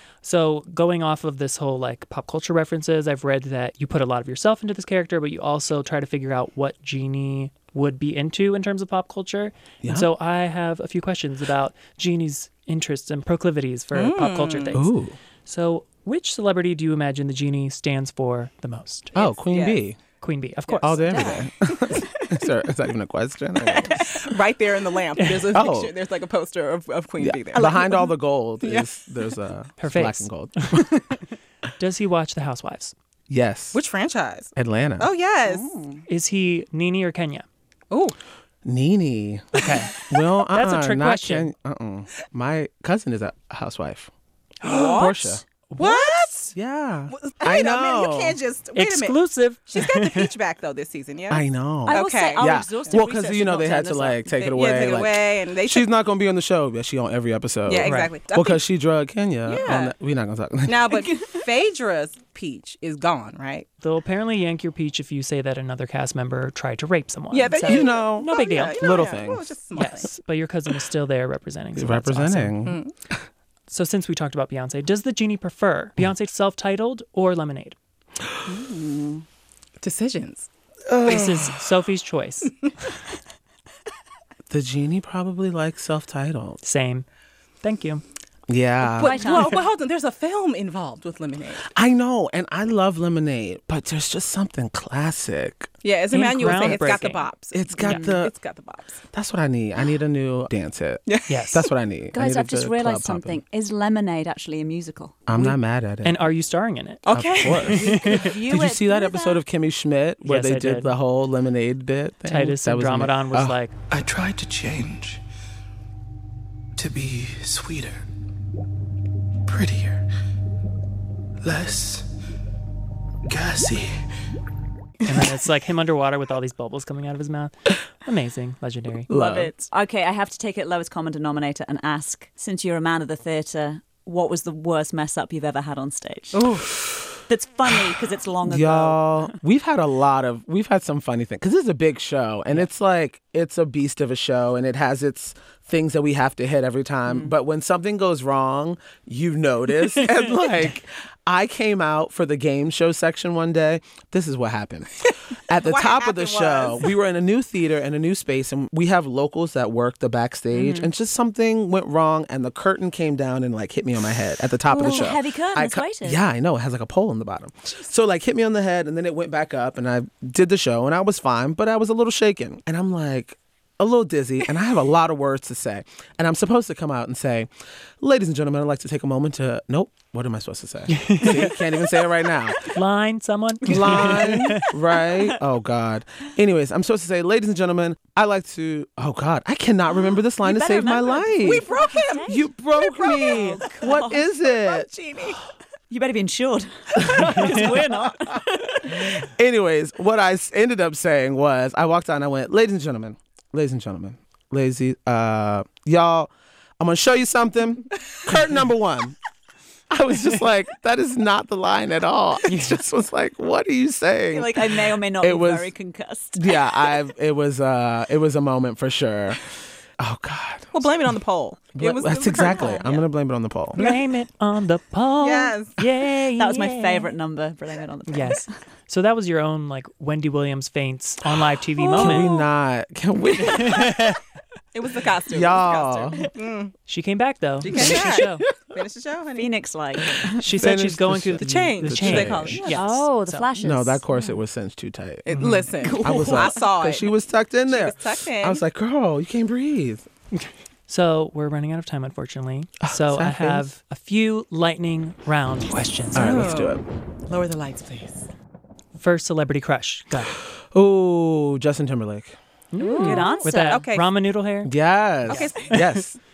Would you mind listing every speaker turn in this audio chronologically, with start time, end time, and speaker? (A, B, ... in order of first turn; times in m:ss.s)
0:00.2-0:14.9 A
0:09.8-0:10.1 B
0:13.9-0:14.8 C
0:14.7-0:15.2 B
0:15.4-0:19.1 A
0:19.1-0:20.0 B
0:19.2-0:19.8 C
0:20.2-0:21.3 A
0:20.8-0:24.2 B
0:21.0-0:22.2 D
0:23.8-0:28.1 C
0:25.5-0:25.9 B
0:27.2-0:31.2 B
0:27.6-0:27.8 D
0:28.6-0:29.1 C
0:29.8-0:30.9 A
0:31.8-0:32.9 A
0:33.3-0:33.8 B
0:33.7-0:35.8 C
0:34.6-0:35.1 B
0:35.4-0:36.0 D
0:36.1-0:37.4 A
0:37.9-0:38.2 C
0:38.6-0:44.1 B
0:39.6-0:41.5 A
0:44.6-0:46.5 C
0:44.6-0:45.4 B
0:45.7-0:46.5 A
0:46.5-0:48.4 B
0:47.1-0:53.0 C
0:48.7-0:50.3 A
0:51.3-1:01.1 B
0:51.8-0:54.3 D
0:54.3-0:55.9 C
0:57.6-0:58.6 C
0:57.8-0:58.1 A
0:59.4-0:59.9 C
1:00.6-1:03.7 C
1:03.8-1:08.9 A
1:07.3-1:10.1 C
1:07.6-1:09.5 B
1:09.7-1:12.6 A
1:11.7-1:12.8 B
1:12.6-1:12.9 C
1:13.7-1:17.8 A
1:18.4-1:19.2 D
1:19.8-1:20.5 C
1:20.9-1:21.6 B
1:21.0-1:22.5 A
1:24.5-1:26.6 B
1:26.6-1:27.0 A
1:27.6-1:28.0 A
1:28.5-1:29.2 B
1:28.8-1:31.7 C
1:29.0-1:29.6 D
1:31.7-1:35.7 B
1:35.8-1:39.0 C
1:36.1-1:37.3 A
1:36.4-1:36.9 B
1:37.5-1:38.3 B
1:39.1-1:43.4 B
1:41.1-1:41.6 C
1:41.3-1:41.7 A
1:42.1-1:45.6 D
1:45.3-1:46.2 B
1:46.0-1:47.0 A
1:47.0-1:47.8 C
1:47.1-1:53.6 B
1:47.6-1:48.3 A
1:47.6-1:49.4 D
1:50.2-1:50.9 A
1:52.2-1:53.7 A
1:53.9-1:55.2 E
1:56.8-1:58.0 E
1:59.5-2:00.0 E
2:01.4-2:02.0 E
2:03.3-2:03.9 E
2:05.0-2:09.1 A
2:09.1-2:09.5 B
2:09.1-2:16.6 D
2:16.3-2:16.6 C
2:17.3-2:19.3 D
2:18.4-2:57.5 B
2:35.6-2:36.9 C
2:40.5-2:40.9 D
2:44.7-2:46.2 D
2:58.0-3:02.7 B
3:00.9-3:01.5 A
3:02.7-3:04.7 A
3:03.6-3:11.6 B
3:10.4-3:14.2 D
3:11.4-3:15.4 C
3:12.2-3:14.9 B
3:15.9-3:19.2 D
3:17.0-3:17.7 B
3:18.9-3:29.2 B
3:29.9-3:35.7 B
3:34.3-3:36.6 D
3:36.3-3:39.4 B
3:40.0-3:40.8 B
3:40.7-3:43.0 C
3:41.8-3:43.8 B
3:42.5-3:42.8 D
3:43.8-3:47.1 A
3:43.8-3:44.0 C
3:45.2-3:45.8 C
3:46.2-3:48.5 D
3:48.1-3:52.3 A
3:51.8-3:52.5 C
3:51.9-3:54.1 B
3:53.4-3:54.2 A
3:54.7-3:56.7 C
3:55.3-3:56.3 B
3:56.9-3:58.4 A
3:57.6-3:59.6 C
3:57.7-3:58.0 B
3:59.3-4:00.5 D
4:00.4-4:03.5 A
4:00.4-4:02.7 B
4:01.4-4:02.8 C
4:02.7-4:04.0 D
4:03.6-4:10.1 B
4:05.3-4:07.1 C
4:05.3-4:05.6 A
4:05.8-4:06.7 D
4:07.6-4:08.6 C
4:10.9-4:16.4 A
4:12.8-4:13.7 B
4:16.1-4:16.8 B
4:16.1-4:18.3 C
4:19.0-4:20.4 A
4:20.7-4:22.4 B
4:22.7-4:24.7 A
4:22.8-4:24.1 C
4:22.9-4:23.8 D
4:24.6-4:26.2 B
4:25.2-4:25.8 C
4:25.3-4:26.0 A